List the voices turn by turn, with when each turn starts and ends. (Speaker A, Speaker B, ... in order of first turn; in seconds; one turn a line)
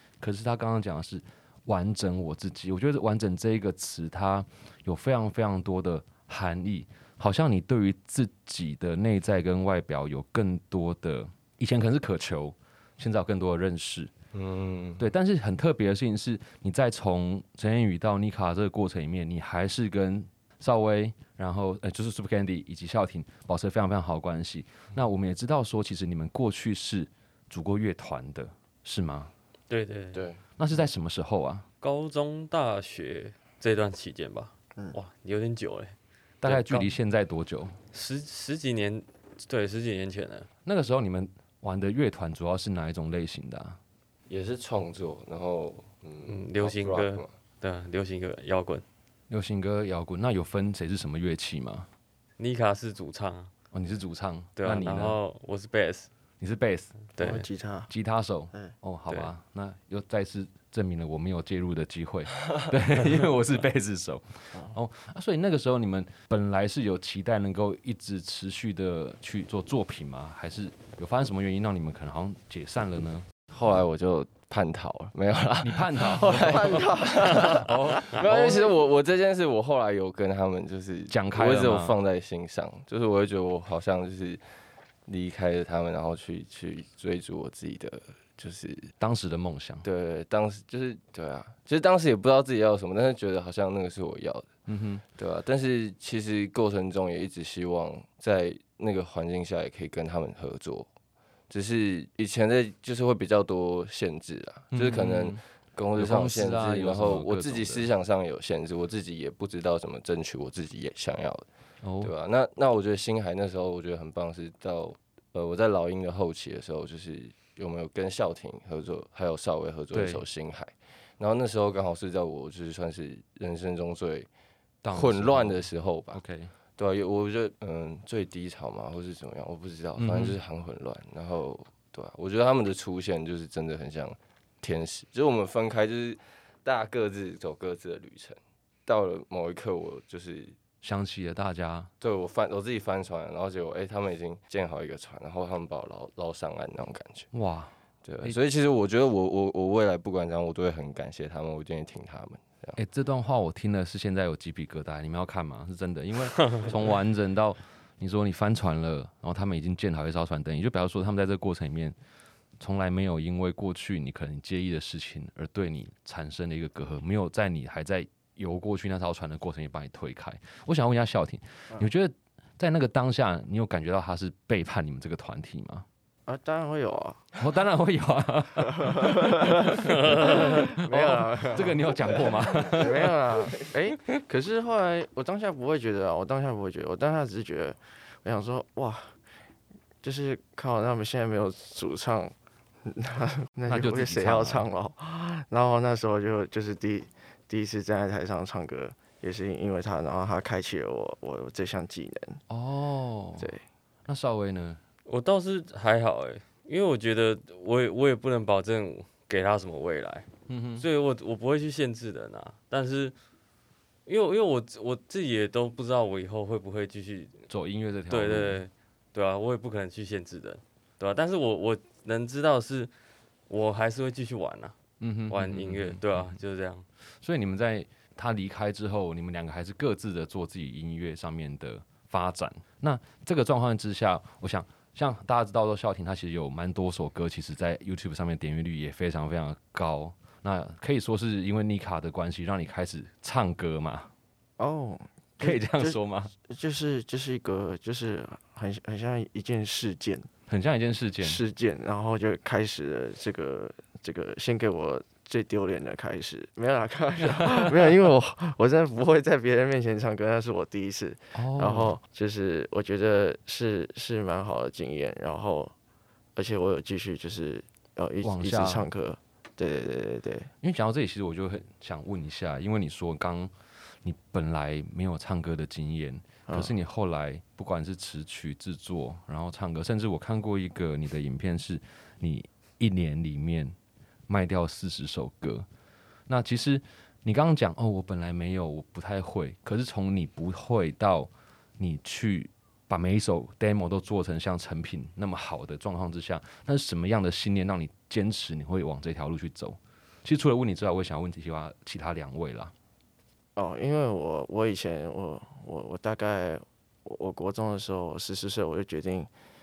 Speaker A: 0.2-14.1
Speaker B: 14.3-15.0
Speaker A: 15.0-29.3
Speaker C: 29.7-30.3
Speaker B: 30.1-30.4
Speaker A: 30.6-31.7
Speaker C: 31.8-36.9
Speaker A: 36.4-37.8
Speaker C: 37.9-40.5
Speaker A: 40.6-43.8
Speaker B: 44.3-47.3
Speaker C: 46.2-48.8
Speaker A: 49.3-51.9
Speaker C: 52.4-53.5
Speaker A: 53.7-55.2
Speaker C: 54.6-56.1
Speaker A: 56.4-57.0
Speaker C: 57.2-57.5
Speaker D: 57.2-57.9
Speaker A: 57.9-73.3
Speaker B: 73.5-84.4
Speaker A: 75.6-78.7
Speaker D: 76.7-77.1
Speaker A: 81.1-82.0
Speaker B: 85.1-88.9
Speaker A: 89.0-89.8
Speaker B: 89.8-94.5
Speaker A: 94.7-95.0
Speaker B: 95.2-100.9
Speaker B: 101.5-111.4
Speaker A: 104.7-105.4
Speaker A: 106.0-107.9
Speaker A: 111.8-112.1
Speaker B: 112.0-124.3
Speaker A: 119.9-120.2
Speaker A: 124.8-126.5
Speaker B: 124.9-126.2
Speaker B: 126.8-140.6
Speaker A: 130.0-130.4
Speaker A: 140.8-141.9
Speaker B: 142.0-147.3
Speaker A: 147.3-148.4
Speaker B: 148.0-152.8
Speaker A: 152.8-162.0
Speaker A: 162.6-175.9
Speaker D: 176.3-177.3
Speaker A: 177.4-183.5
Speaker D: 178.8-189.1
Speaker D: 190.0-192.3
Speaker D: 192.8-202.4
Speaker A: 193.7-194.7
Speaker A: 202.5-203.5
Speaker D: 203.4-203.6
Speaker A: 204.1-204.8
Speaker C: 205.1-210.3
Speaker A: 210.5-210.9
Speaker C: 210.8-213.2
Speaker C: 214.1-217.4
Speaker A: 217.5-218.6
Speaker C: 218.1-222.9
Speaker C: 223.5-224.8
Speaker A: 225.0-226.4
Speaker C: 225.3-226.8
Speaker A: 227.2-244.1
Speaker D: 244.6-250.3
Speaker A: 245.4-246.3
Speaker A: 250.5-251.4
Speaker D: 251.2-265.7
Speaker A: 257.2-258.0
Speaker A: 261.3-262.0
Speaker D: 266.4-270.5
Speaker A: 268.2-268.9
Speaker A: 270.6-283.8
Speaker D: 276.5-276.7
Speaker A: 284.3-285.7
Speaker A: 286.3-302.7
Speaker D: 303.6-309.3